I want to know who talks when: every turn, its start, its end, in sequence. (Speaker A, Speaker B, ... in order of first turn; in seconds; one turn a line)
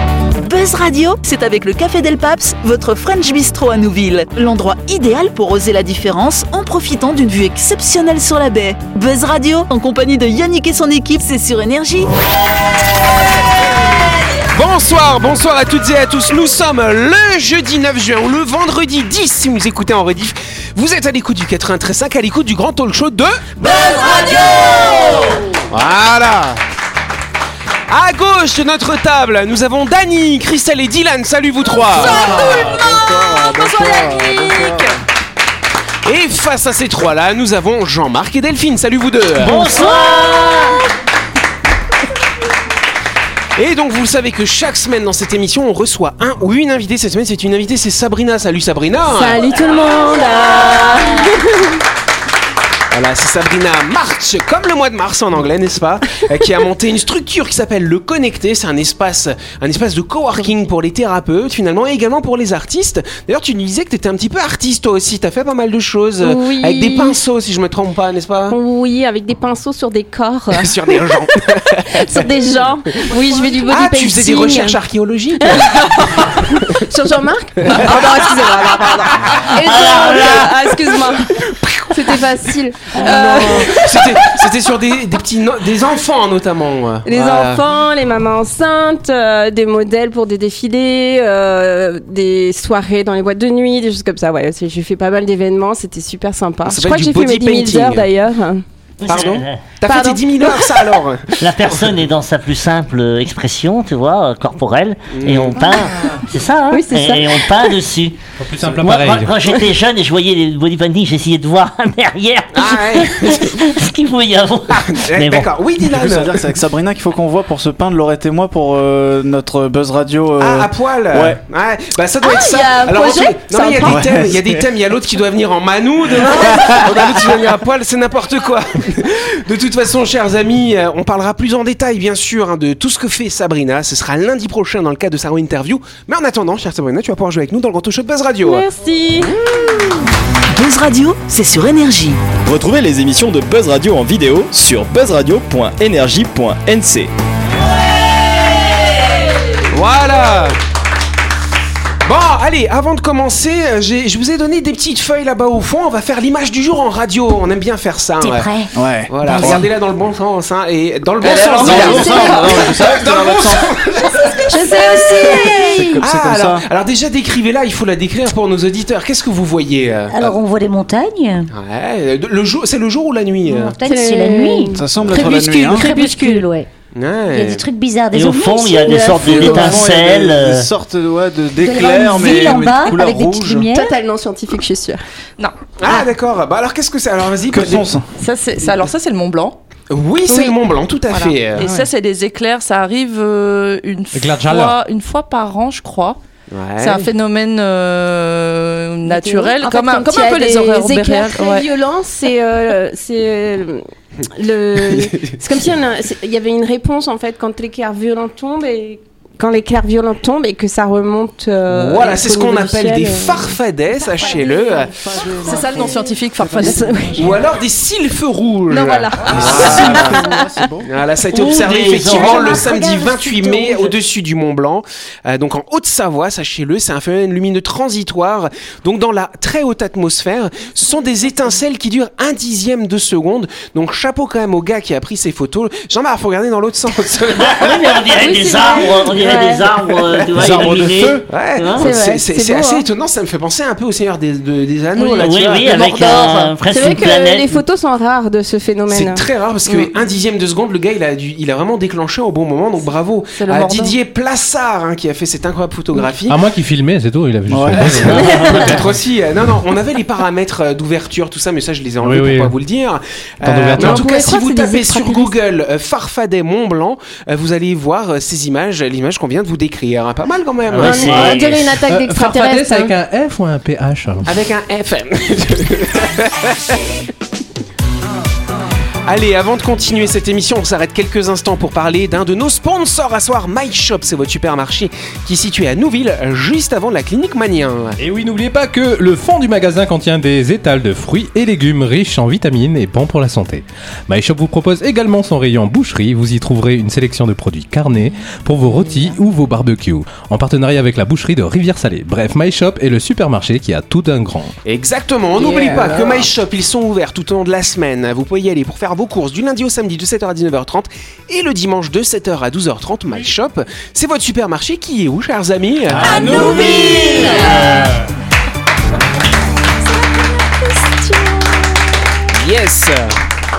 Speaker A: 0.4-12.1
Speaker B: 14.5-23.5
Speaker C: 23.7-25.3
Speaker B: 25.7-26.6
Speaker B: 27.9-32.3
Speaker D: 31.9-34.9
Speaker E: 32.0-34.9
Speaker F: 32.1-32.9
Speaker B: 36.0-39.8
Speaker C: 39.4-40.8
Speaker F: 39.8-40.7
Speaker B: 43.5-49.4
Speaker F: 49.1-51.8
Speaker B: 52.9-68.6
Speaker F: 66.2-67.2
Speaker F: 68.5-71.1
Speaker B: 70.5-72.2
Speaker F: 71.7-74.8
Speaker B: 73.6-76.3
Speaker F: 75.4-84.5
Speaker B: 77.6-78.1
Speaker B: 79.2-79.5
Speaker C: 79.6-80.5
Speaker B: 81.4-82.1
Speaker B: 82.9-87.6
Speaker F: 87.0-98.6
Speaker B: 96.6-98.1
Speaker C: 99.0-99.6
Speaker B: 99.1-101.8
Speaker F: 99.8-101.0
Speaker C: 101.4-115.5
Speaker B: 105.1-105.7
Speaker F: 106.7-107.7
Speaker G: 108.4-109.3
Speaker B: 112.5-113.6
Speaker B: 114.7-116.6
Speaker E: 115.8-121.4
Speaker B: 120.4-138.6
Speaker F: 122.2-124.0
Speaker E: 123.8-124.6
Speaker E: 126.5-126.8
Speaker F: 138.4-139.3
Speaker B: 139.2-139.7
Speaker A: 140.5-142.2
Speaker H: 142.4-147.1
Speaker B: 149.7-150.6
Speaker B: 152.0-158.5
Speaker I: 158.2-158.7
Speaker E: 158.7-159.7
Speaker B: 159.1-164.6
Speaker D: 161.3-162.5
Speaker E: 161.5-163.7
Speaker F: 161.5-162.7
Speaker F: 164.3-165.9
Speaker B: 165.2-170.3
Speaker E: 165.3-166.6
Speaker I: 170.1-171.5
Speaker B: 171.5-173.8
Speaker I: 173.4-176.7
Speaker F: 173.8-176.4
Speaker E: 174.7-176.0
Speaker B: 176.9-177.6
Speaker I: 177.3-179.8
Speaker C: 178.1-180.7
Speaker F: 178.8-179.7
Speaker E: 179.0-183.6
Speaker I: 181.6-183.9
Speaker F: 183.7-185.0
Speaker B: 185.8-187.9
Speaker E: 187.5-188.1
Speaker D: 188.2-189.6
Speaker B: 189.9-191.7
Speaker D: 191.1-196.2
Speaker G: 194.1-194.8
Speaker B: 196.5-197.0
Speaker D: 196.8-201.7
Speaker F: 199.1-213.5
Speaker B: 204.8-205.4
Speaker B: 211.7-214.9
Speaker F: 214.1-214.9
Speaker E: 214.4-217.4
Speaker D: 215.4-216.9
Speaker F: 215.4-217.2
Speaker B: 217.1-220.2
Speaker F: 218.7-220.7
Speaker E: 219.2-220.9
Speaker B: 220.8-238.0
Speaker C: 221.3-222.6
Speaker I: 222.0-223.9
Speaker C: 237.3-241.9
Speaker F: 238.1-240.1
Speaker E: 240.3-241.2
Speaker B: 241.2-246.5
Speaker F: 241.8-242.8
Speaker C: 245.0-247.5
Speaker F: 246.7-249.8
Speaker B: 248.9-256.4
Speaker D: 253.3-253.9
Speaker G: 256.3-258.8
Speaker E: 257.5-258.0
Speaker B: 257.8-271.4
Speaker C: 258.0-258.8
Speaker G: 262.0-262.5
Speaker G: 263.4-264.2
Speaker A: 263.7-265.3
Speaker C: 270.7-271.8
Speaker F: 270.8-272.9
Speaker G: 271.8-274.3
Speaker B: 274.2-276.8
Speaker B: 279.1-288.0
Speaker G: 288.0-304.5
Speaker B: 304.6-316.7
Speaker F: 305.3-306.2
Speaker C: 316.0-318.0
Speaker E: 316.0-317.0
Speaker F: 316.1-317.7
Speaker F: 319.8-322.1
Speaker B: 322.3-323.1